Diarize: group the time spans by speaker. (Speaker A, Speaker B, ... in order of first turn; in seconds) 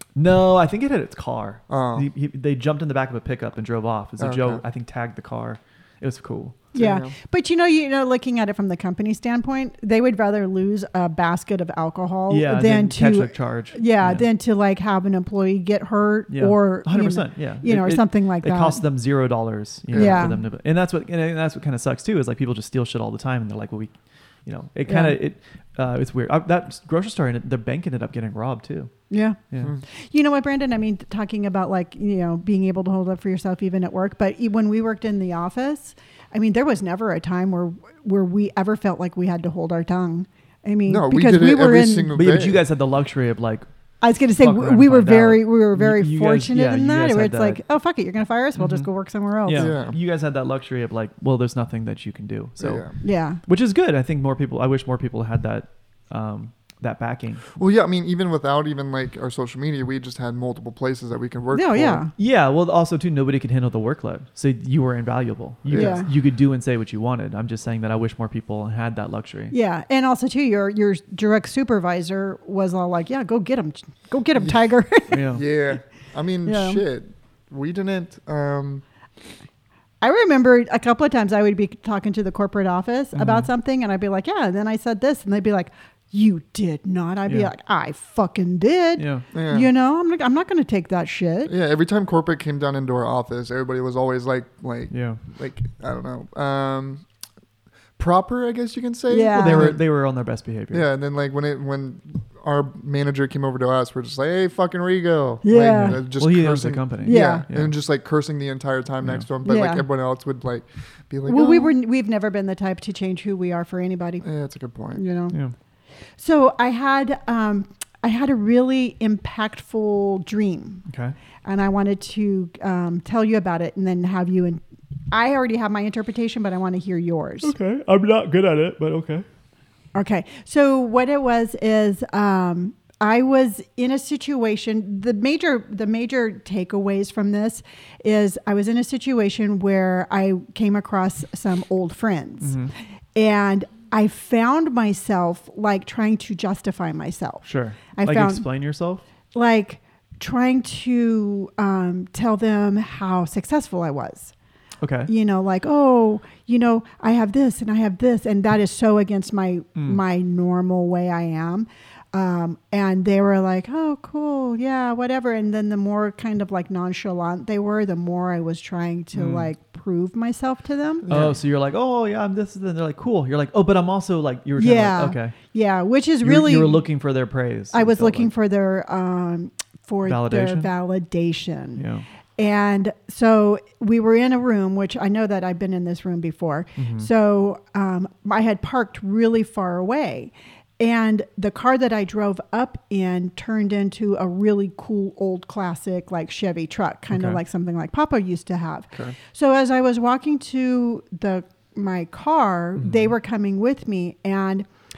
Speaker A: 0.2-6.7, 12.3-14.3, 16.3-23.9, 24.5-28.9, 42.1-43.7, 44.4-47.6, 48.6-48.9, 49.5-57.5, 62.2-69.5, 75.1-75.4, 83.2-83.5, 89.0-89.2, 94.9-95.2, 99.4-100.9, 105.7-107.7, 120.9-121.2, 127.4-129.2, 142.4-142.7, 147.4-149.0, 154.8-155.1, 169.1-169.5, 171.1-175.3, 176.2-178.3, 180.1-180.7, 181.8-182.1, 186.8-187.1, 197.1-197.4, 202.8-203.1
Speaker B: 1.7-2.1, 4.2-4.6, 6.7-7.1, 19.9-20.3, 40.9-42.6, 49.5-50.0, 52.6-52.9, 57.6-62.1, 65.7-66.0, 75.3-78.8, 89.3-89.7, 91.5-97.0, 98.0-99.8, 100.7-111.7, 114.2-115.0, 171.1-171.4
Speaker C: 6.8-18.8, 19.9-20.4, 24.9-25.2, 29.1-29.4, 29.9-42.1, 44.0-49.7, 53.0-53.4, 61.5-62.1, 65.7-66.1, 69.5-75.4, 76.5-76.8, 80.0-91.5, 99.1-99.8, 105.4-106.0, 107.0-107.5, 109.5-109.8, 111.3-114.2, 114.9-115.4, 116.2-120.8, 121.4-127.5, 129.9-142.6, 143.2-148.4, 149.3-154.3, 155.1-171.1, 174.6-176.8, 177.7-181.8, 182.4-204.7